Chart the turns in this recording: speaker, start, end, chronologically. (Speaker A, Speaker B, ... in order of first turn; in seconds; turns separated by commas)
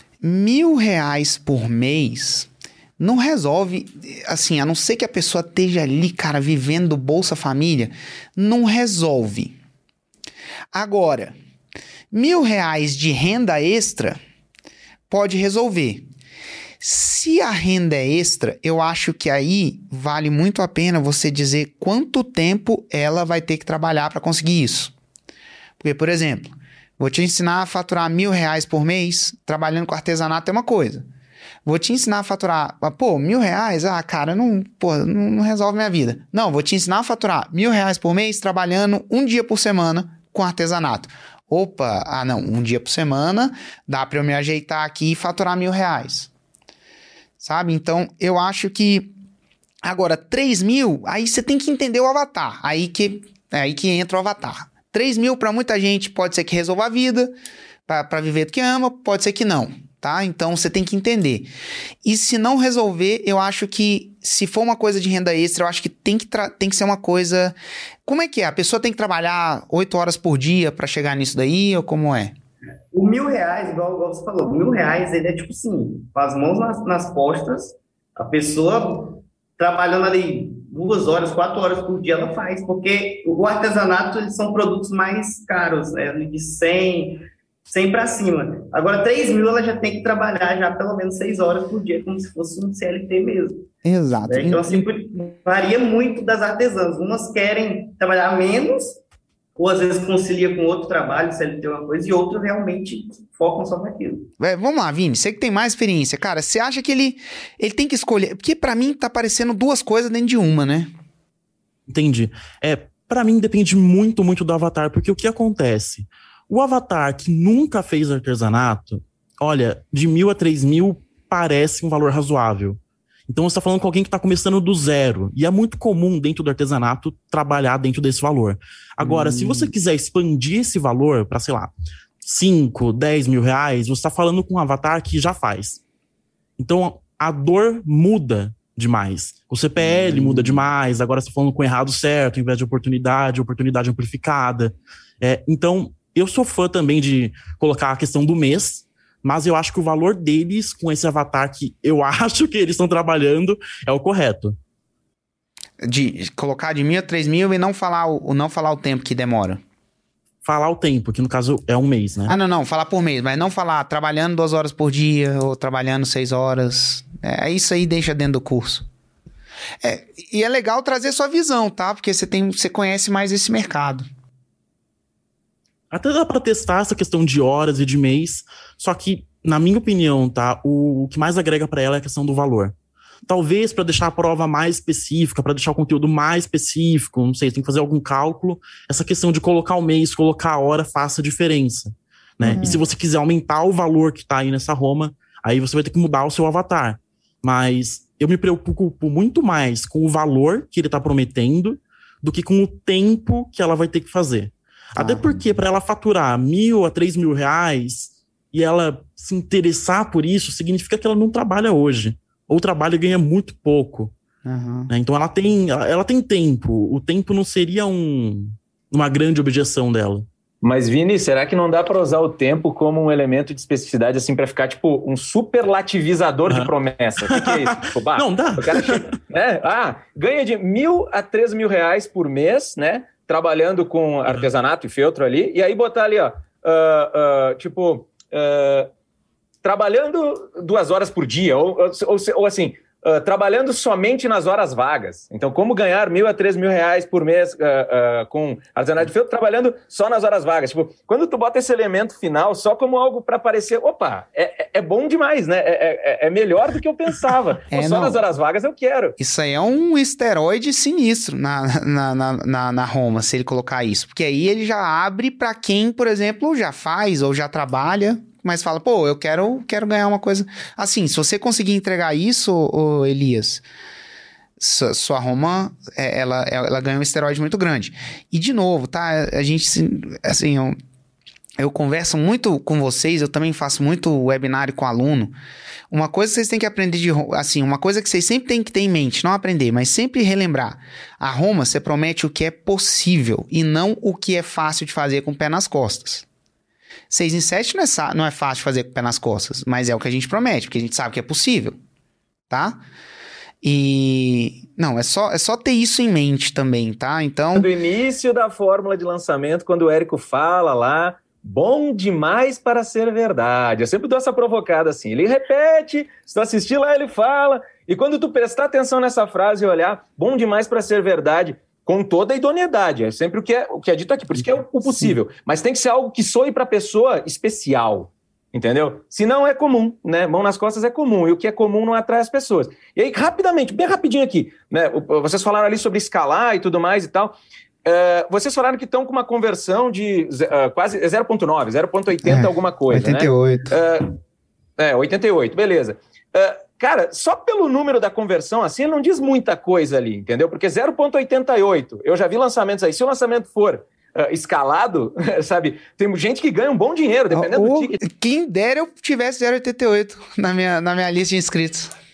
Speaker A: 0.2-9.6, Speaker A: 10.7-11.4, Speaker A: 12.1-14.2, Speaker A: 15.1-16.1, Speaker A: 16.8-24.9, Speaker A: 25.8-31.1, Speaker A: 31.6-46.3, Speaker A: 47.4-49.1, Speaker A: 49.8-57.3, Speaker A: 57.9-61.5, Speaker A: 62.0-72.3, Speaker B: 72.9-93.7, Speaker A: 93.8-94.9, Speaker B: 94.3-99.0, Speaker B: 99.6-104.3, Speaker A: 104.4-110.9, Speaker C: 111.9-131.7, Speaker A: 129.0-129.7, Speaker C: 132.2-135.8, Speaker C: 136.6-154.6, Speaker A: 139.8-140.6, Speaker A: 155.8-159.6, Speaker C: 160.4-162.4, Speaker A: 162.3-168.9, Speaker A: 169.8-174.1, Speaker C: 175.9-182.7, Speaker C: 183.3-214.1, Speaker A: 192.4-192.8, Speaker A: 205.0-205.4, Speaker A: 214.4-214.9, Speaker C: 214.9-220.2, Speaker D: 220.6-238.9, Speaker C: 227.2-229.2, Speaker D: 239.6-259.2, Speaker A: 257.7-258.2, Speaker A: 259.2-273.6, Speaker A: 274.6-280.8, Speaker A: 281.6-285.3, Speaker A: 285.9-296.3, Speaker A: 297.1-301.8, Speaker A: 302.5-302.8, Speaker A: 303.6-307.7, Speaker D: 307.6-337.3, Speaker D: 337.9-344.2, Speaker A: 342.2-343.8, Speaker D: 344.8-358.0, Speaker A: 357.3-361.9